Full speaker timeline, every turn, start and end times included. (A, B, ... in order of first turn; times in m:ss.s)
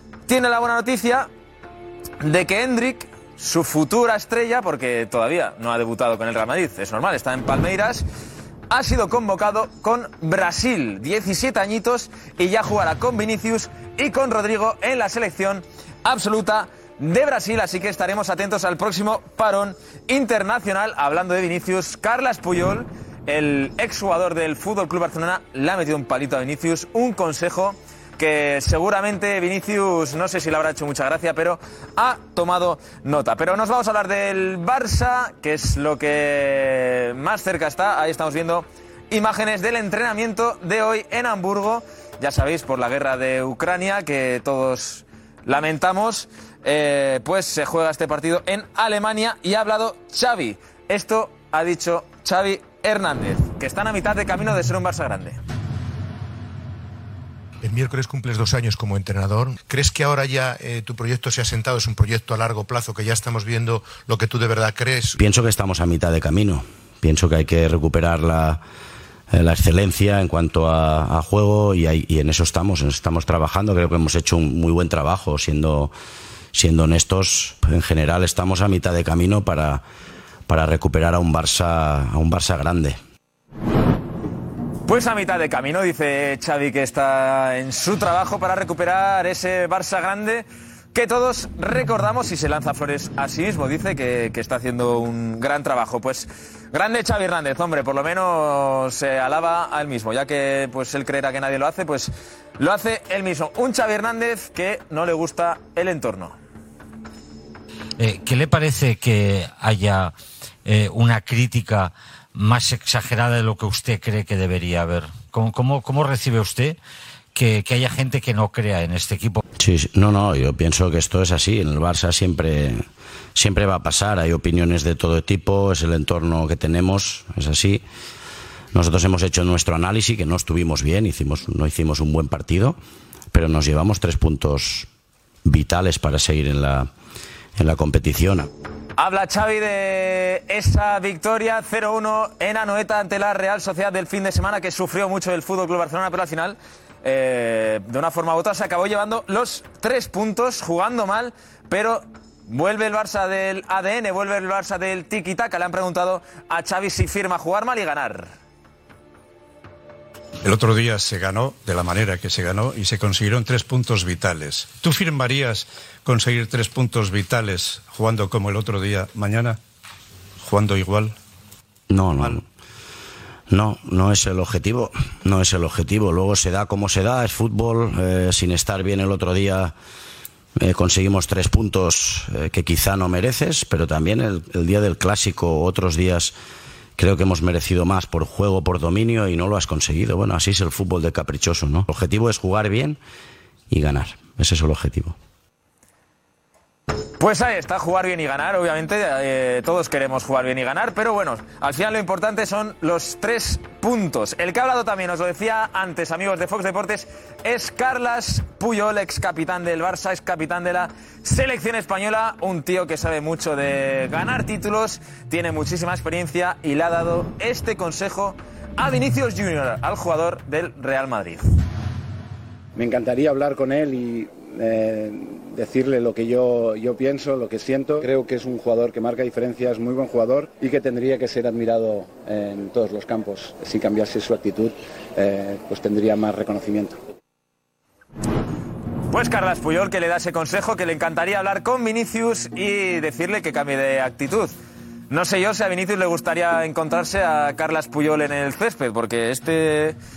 0:00.3-0:01.3 A
0:02.2-0:08.0 A
0:08.7-0:55.4 A
0:57.6-1:05.1 B
1:05.2-1:08.6 C
1:09.3-1:15.9 C
1:16.5-1:19.8 C
1:20.5-1:23.0 C
1:24.9-1:46.4 A
1:48.0-1:50.1 D
1:50.6-1:56.8 D
1:57.3-1:59.4 D
1:59.6-2:02.8 C
2:03.4-2:07.8 C
2:08.7-2:12.8 C
2:13.3-2:14.9 C
2:15.4-2:16.9 C
2:17.6-2:18.5 C
2:19.0-2:38.3 A
2:40.4-2:49.6 E
2:50.4-2:51.1 E
2:51.9-2:52.4 C
2:53.5-2:59.7 C
3:00.6-3:06.3 C
3:07.0-3:13.0 C
3:13.7-3:15.2 C
3:17.2-3:41.5 A
3:42.7-3:57.0 F
3:59.1-4:04.5 A
4:05.1-4:10.0 A